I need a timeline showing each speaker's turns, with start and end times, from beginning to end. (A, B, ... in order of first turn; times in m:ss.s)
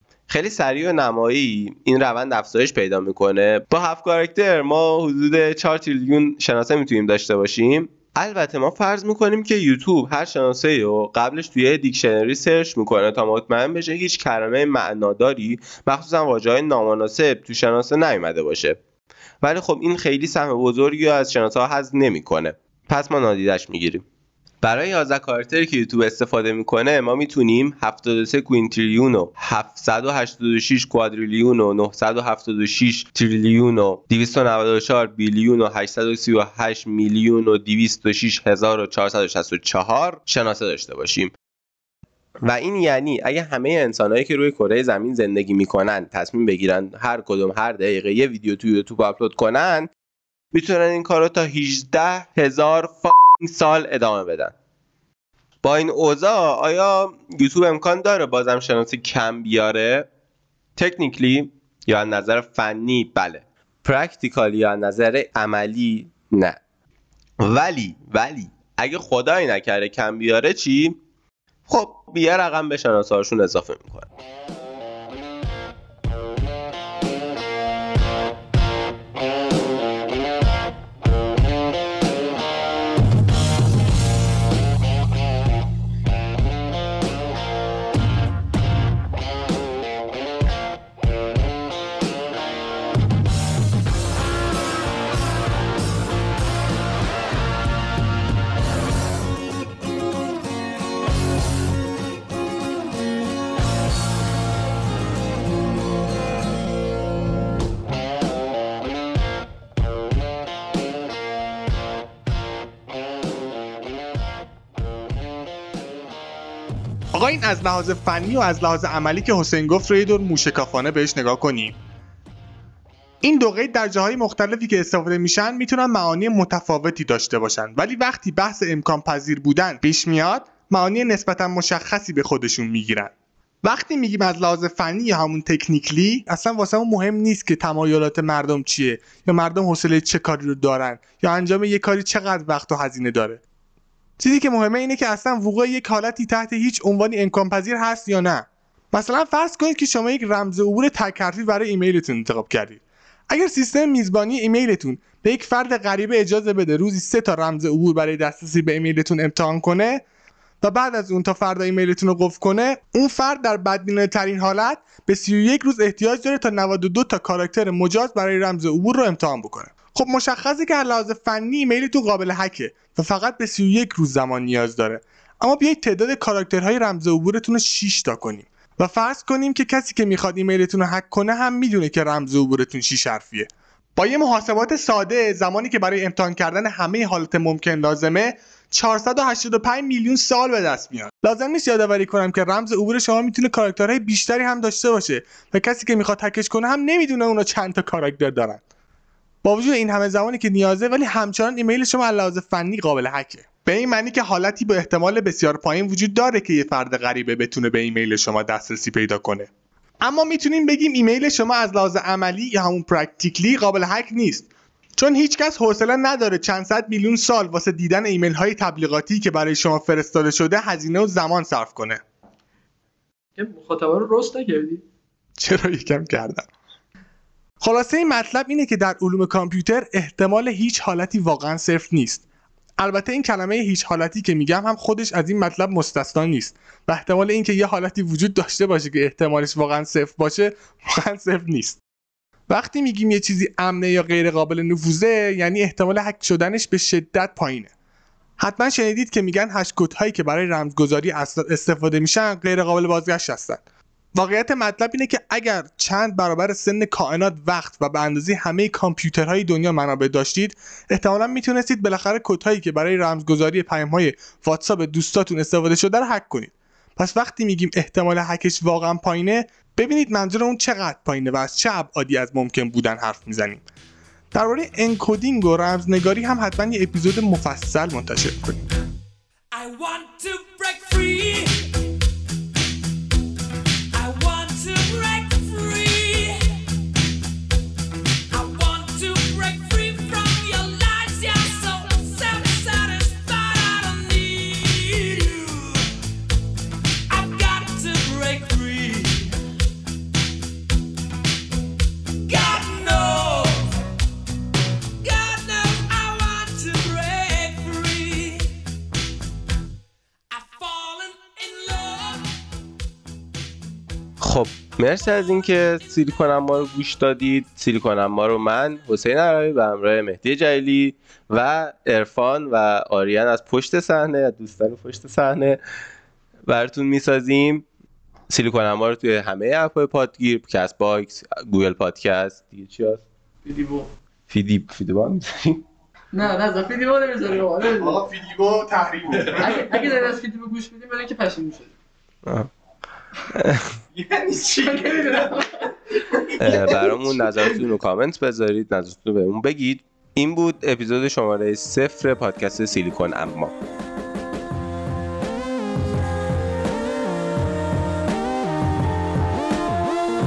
0:00.3-0:18.8 A
0:19.4-0:24.0 A
0:24.6-0:41.3 A
0:42.4-0:49.9 A
0:50.5-0:54.5 A
0:55.6-1:00.1 A
1:00.8-1:06.6 A
1:07.4-1:11.0 A
1:11.7-1:14.1 A
1:57.2-2:01.8 B
2:03.2-2:23.4 B
2:24.2-2:40.0 B
2:40.6-3:18.6 B
3:19.4-3:29.5 B
3:30.0-3:42.0 B
3:43.4-3:44.8 C
3:45.4-3:46.5 B
3:47.6-3:52.2 B
3:52.8-4:01.8 B
4:02.5-4:07.7 B
4:08.4-4:13.6 B
4:14.2-4:33.6 B
4:34.3-4:38.7 B
4:39.5-4:41.8 D
4:43.9-4:46.6 D
4:48.3-4:55.9 D
4:57.1-4:59.4 D
5:02.3-5:03.8 D
5:05.0-5:08.5 D
5:10.3-5:12.3 D
5:14.2-5:25.6 A
5:26.5-5:27.6 A
5:28.3-5:33.0 A
5:33.5-5:33.9 C
5:34.3-5:35.6 A
5:36.1-5:38.0 C
5:37.7-5:40.0 B
5:39.4-5:41.7 C
5:42.2-5:42.5 A
5:43.3-5:43.8 A
5:44.0-5:45.4 B
5:44.7-5:45.5 C
5:46.0-5:47.6 B
5:46.4-5:53.5 A